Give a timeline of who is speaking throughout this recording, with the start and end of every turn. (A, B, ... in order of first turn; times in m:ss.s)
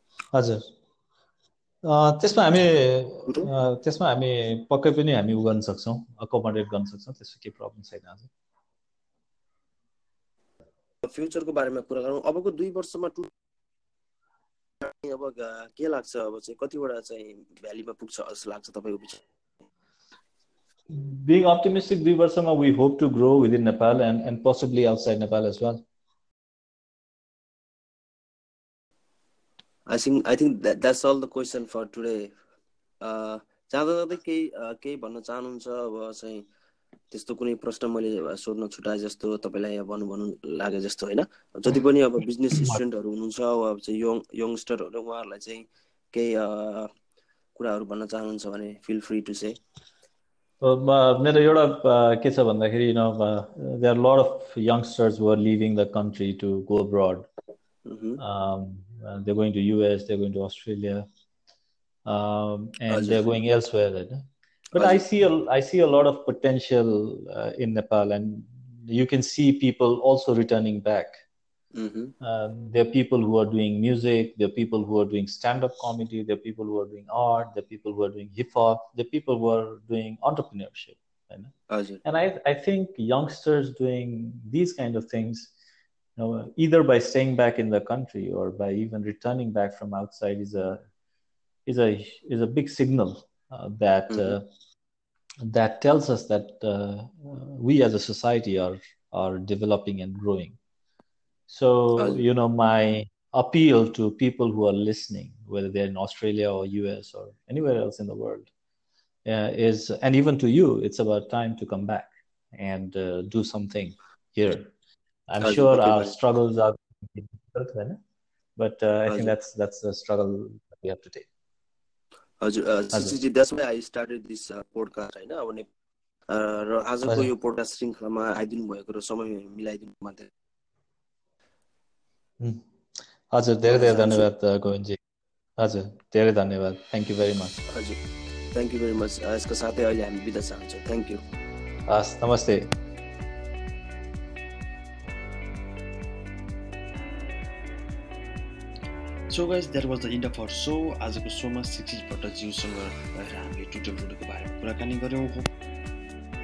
0:00.3-0:00.6 A
0:01.9-0:08.3 A
0:11.0-0:13.3 B
0:14.8-0:19.2 B
0:20.9-0:25.8 A
0:29.9-0:32.2 B
0:33.0-0:36.4 B
0:37.1-0:46.9 B
0:47.5-0:49.5 B
0:50.6-0:57.3 A
0:57.8-0:58.2 B
0:58.2-1:01.0 A
1:02.0-1:04.2 A
1:02.9-1:03.3 B
1:04.7-1:11.2 A
1:04.7-1:05.0 B
1:11.7-1:12.1 B
1:12.2-1:21.5 A
1:21.7-1:22.0 B
1:22.0-1:25.5 A
1:26.2-1:30.8 A
1:31.6-1:34.4 A
1:34.1-1:34.4 B
1:35.4-1:40.6 A
1:41.5-1:48.5 A
1:42.0-1:42.2 B
1:49.2-1:54.7 A
1:55.3-1:58.0 A
1:55.4-1:56.2 B
1:58.6-2:01.3 A
1:59.1-1:59.3 B
2:02.4-2:05.6 B
2:06.3-2:10.3 B
2:13.3-2:15.0 A
2:13.7-2:14.3 B
2:15.6-2:17.6 A
2:18.5-2:21.2 B
2:21.9-2:22.6 A
2:29.3-2:35.4 C